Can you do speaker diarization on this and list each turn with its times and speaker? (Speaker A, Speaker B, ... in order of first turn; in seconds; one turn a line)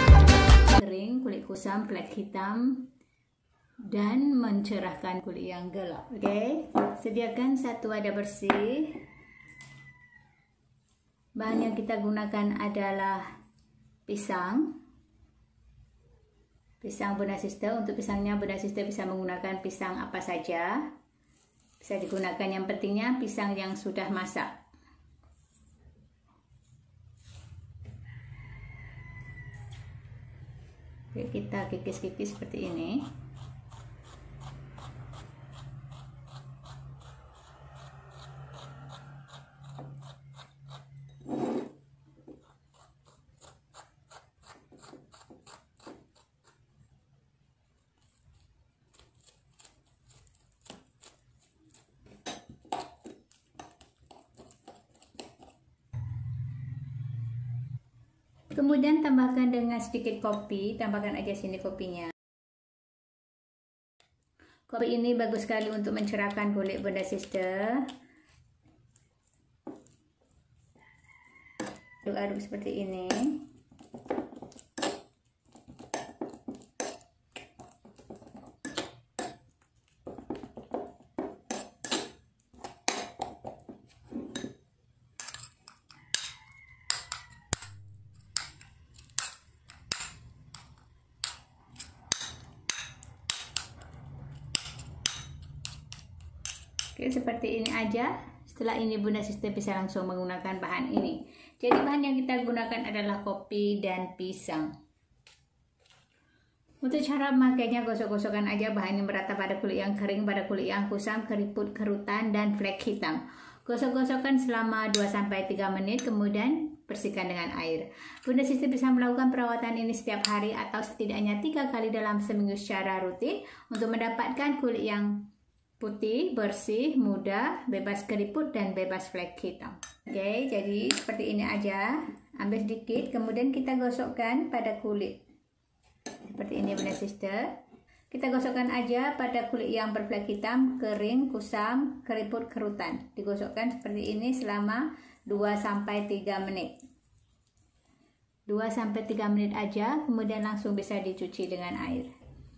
Speaker A: 0.2-2.9
Speaker A: 3.9-9.1
Speaker A: 11.4-13.3
Speaker A: 14.1-14.8
Speaker A: 16.8-20.9
Speaker A: 21.8-24.6
Speaker A: 31.1-33.1
Speaker A: 58.5-62.1
Speaker A: 64.7-67.9
Speaker A: 72.0-73.5
Speaker A: 97.0-104.7
Speaker A: 106.8-125.3
Speaker A: 125.8-135.2
Speaker A: 136.3-137.6
Speaker A: 138.1-146.7
Speaker A: 148.5-152.1